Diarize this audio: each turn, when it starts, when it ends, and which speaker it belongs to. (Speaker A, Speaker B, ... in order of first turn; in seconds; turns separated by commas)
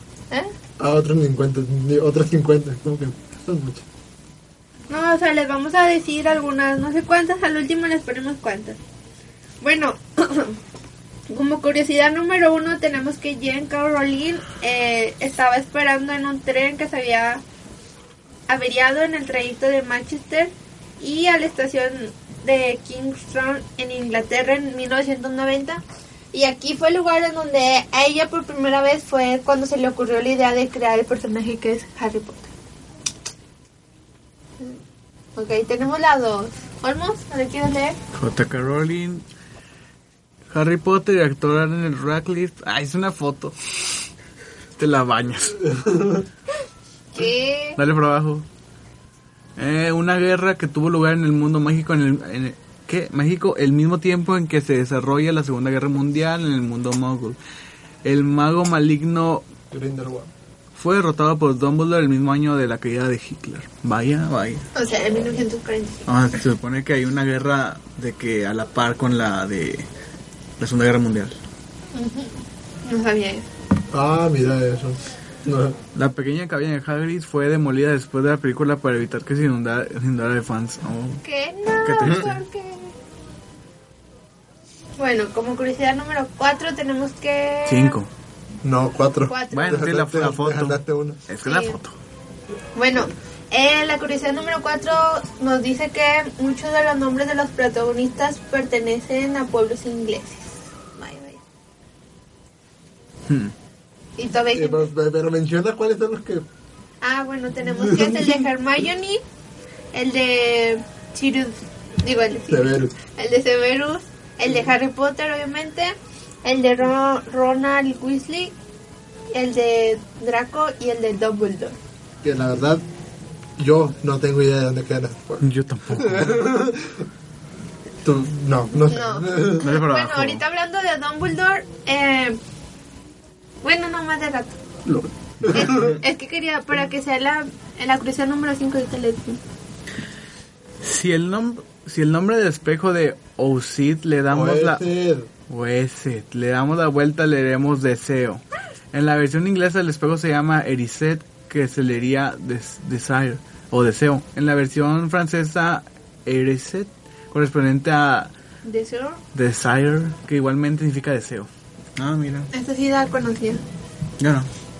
Speaker A: 0.8-3.8, Speaker B: 4.9-8.8, Speaker B: 9.6-10.6, Speaker B: 11.3-17.4, Speaker B: 18.5-32.5, Speaker B: 35.4-38.0, Speaker C: 38.1-39.2, Speaker C: 40.5-43.5, Speaker C: 44.8-45.7, Speaker A: 45.9-46.2, Speaker B: 47.1-47.8, Speaker C: 47.8-48.4, Speaker C: 49.6-57.4, Speaker C: 58.0-59.5, Speaker A: 59.7-60.3, Speaker C: 60.7-64.7, Speaker B: 64.7-66.0, Speaker C: 66.1-69.8, Speaker C: 70.6-71.4, Speaker B: 71.9-73.5, Speaker A: 73.9-75.8, Speaker C: 75.9-81.2, Speaker B: 81.2-82.9, Speaker C: 81.8-82.4, Speaker B: 85.0-87.9, Speaker C: 87.7-88.1, Speaker A: 88.6-91.2, Speaker B: 89.3-89.8, Speaker C: 89.5-92.0, Speaker B: 91.4-91.8, Speaker B: 92.8-101.4, Speaker B: 104.2-104.9, Speaker A: 104.5-106.4, Speaker B: 107.0-109.2, Speaker A: 107.8-108.4, Speaker B: 109.9-118.5, Speaker A: 112.5-112.9, Speaker B: 119.3-121.7, Speaker A: 122.2-122.8, Speaker A: 123.6-127.0, Speaker C: 125.4-126.4, Speaker A: 128.0-129.7, Speaker B: 128.9-132.4, Speaker C: 129.6-130.4, Speaker B: 133.6-134.6, Speaker A: 134.8-136.0, Speaker B: 135.5-139.4, Speaker C: 140.8-144.8, Speaker A: 144.3-145.3, Speaker C: 145.5-158.3, Speaker B: 158.6-159.2, Speaker C: 159.3-162.5, Speaker B: 162.5-163.6, Speaker C: 164.2-164.5